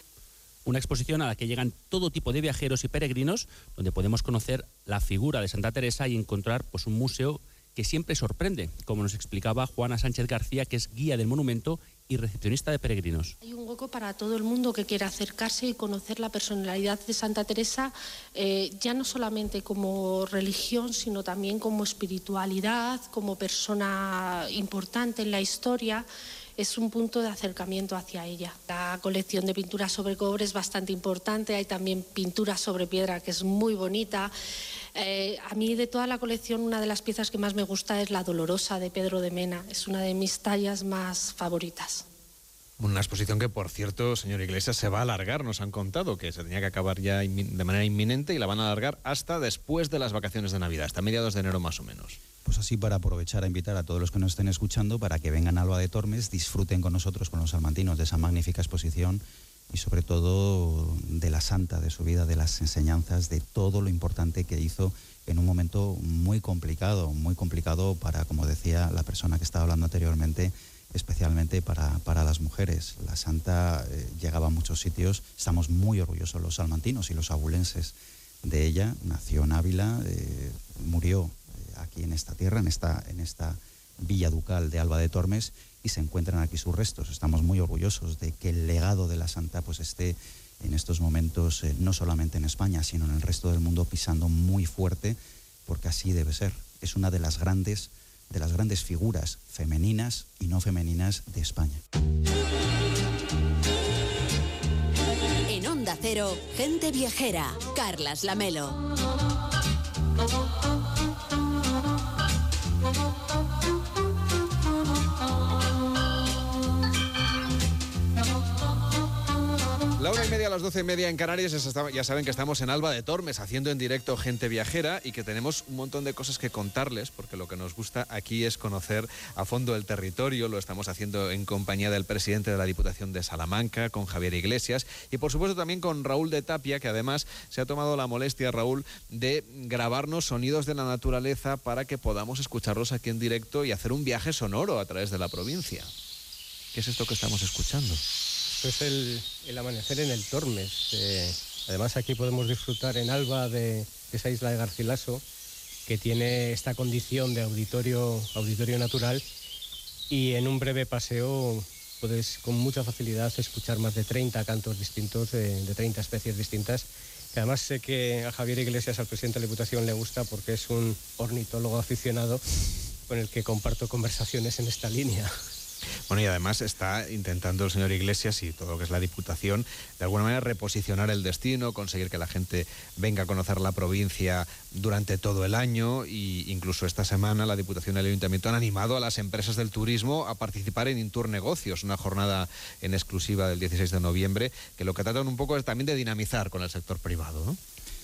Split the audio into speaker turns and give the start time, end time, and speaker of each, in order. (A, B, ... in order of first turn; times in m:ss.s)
0:00.6-0:13.4 A
0:13.4-0:34.3 B
0:35.0-0:42.0 B
0:42.8-0:52.2 C
0:52.4-1:41.8 D
1:45.5-1:48.8 E
2:00.0-2:25.9 C
2:26.7-2:28.0 C
2:28.5-2:35.2 F
2:35.9-2:39.2 F
2:40.1-2:52.4 F
2:53.1-2:55.3 F
2:56.1-3:17.6 C